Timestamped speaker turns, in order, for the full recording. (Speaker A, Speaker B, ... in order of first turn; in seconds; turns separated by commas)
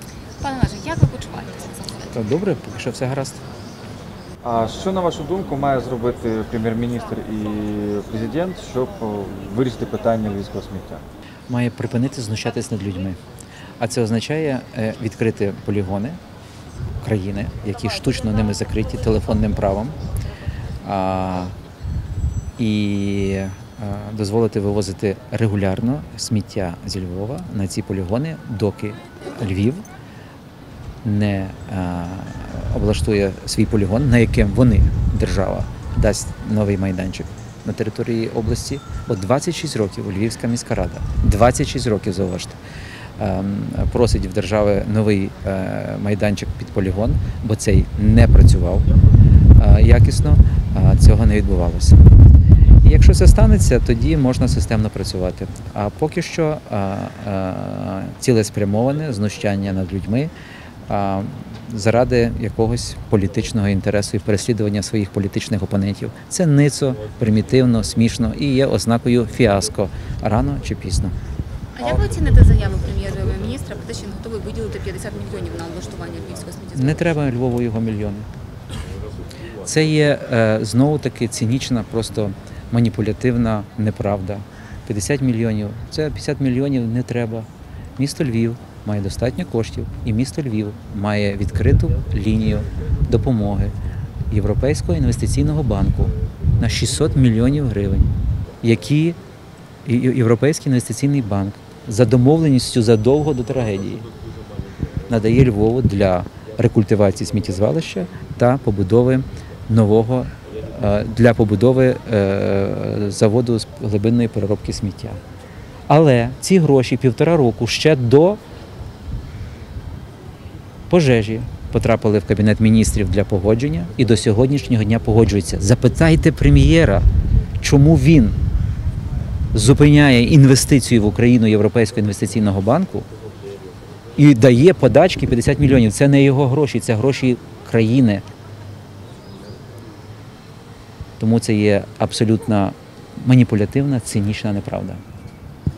Speaker A: 0.4-2.1, Speaker B: 2.1-3.4, Speaker C: 4.4-11.0, Speaker B: 11.5-13.2, Speaker B: 13.8-16.2, Speaker B: 17.0-20.0, Speaker B: 20.8-21.6, Speaker B: 22.6-29.8, Speaker B: 31.0-42.6, Speaker B: 43.2-48.9, Speaker B: 49.6-52.0, Speaker B: 52.8-60.3, Speaker B: 60.9-71.1, Speaker A: 71.8-77.1, Speaker B: 76.8-78.3, Speaker B: 79.6-93.7, Speaker B: 94.3-99.2, Speaker B: 99.8-104.1, Speaker B: 105.1-115.2, Speaker B: 115.9-118.4, Speaker B: 120.9-127.0, Speaker B: 127.6-128.4, Speaker B: 129.5-133.1, Speaker B: 134.2-138.2, Speaker B: 141.2-145.0